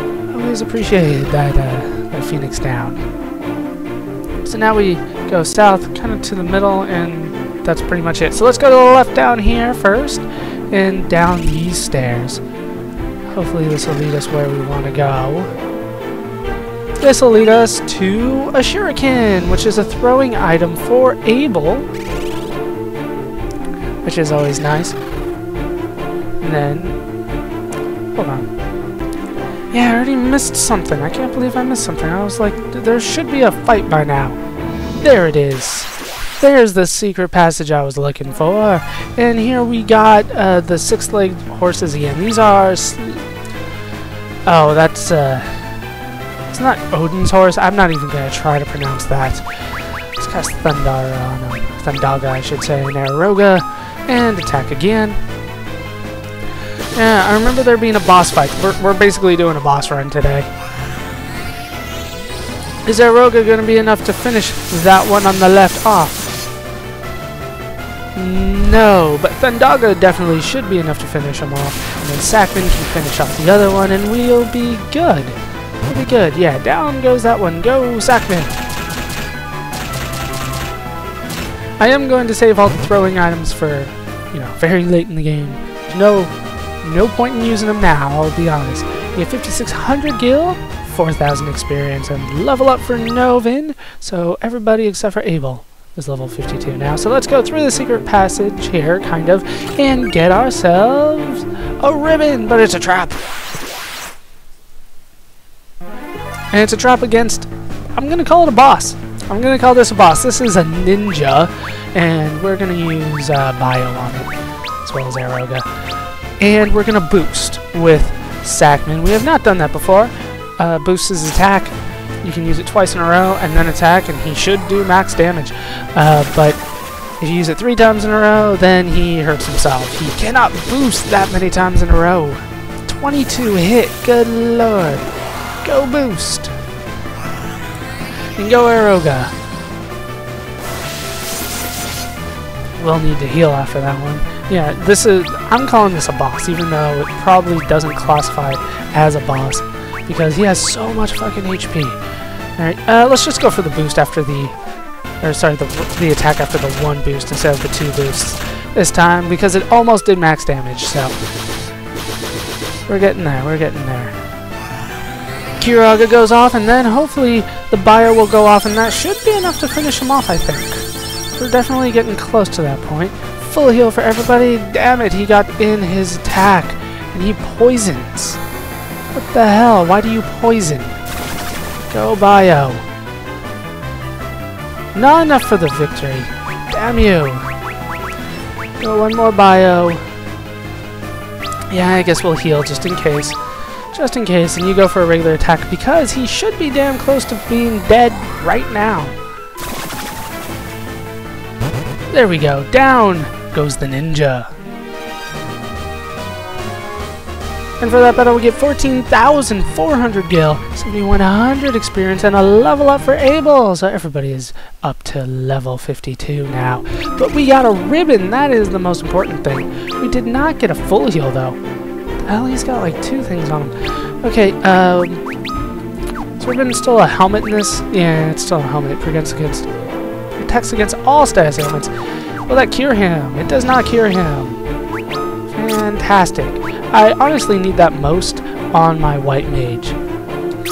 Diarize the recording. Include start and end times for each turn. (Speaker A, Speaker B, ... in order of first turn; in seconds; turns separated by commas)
Speaker A: 0.3-3.0, Speaker A: 4.4-12.4, Speaker A: 13.3-15.5, Speaker A: 17.0-21.9, Speaker A: 24.0-25.0, Speaker A: 26.4-27.0, Speaker A: 28.1-28.5, Speaker A: 29.7-34.4, Speaker A: 35.0-43.2, Speaker A: 44.4-45.6, Speaker A: 46.5-49.5, Speaker A: 50.1-55.2, Speaker A: 56.9-60.5, Speaker A: 62.8-66.3, Speaker A: 68.1-78.5, Speaker A: 81.8-103.2, Speaker A: 106.5-114.3, Speaker A: 114.8-115.7, Speaker A: 116.4-126.6, Speaker A: 127.2-135.1, Speaker A: 135.6-136.5, Speaker A: 138.4-139.3, Speaker A: 142.8-152.0, Speaker A: 152.6-154.6, Speaker A: 155.2-161.2, Speaker A: 162.9-164.2, Speaker A: 165.6-178.4, Speaker A: 179.1-181.0, Speaker A: 181.9-182.8, Speaker A: 184.9-187.5, Speaker A: 188.8-190.0, Speaker A: 191.7-193.4, Speaker A: 193.9-199.2, Speaker A: 202.1-204.5, Speaker A: 207.8-221.6, Speaker A: 222.2-225.2, Speaker A: 226.4-229.7, Speaker A: 230.3-231.9, Speaker A: 232.5-234.6, Speaker A: 235.5-240.0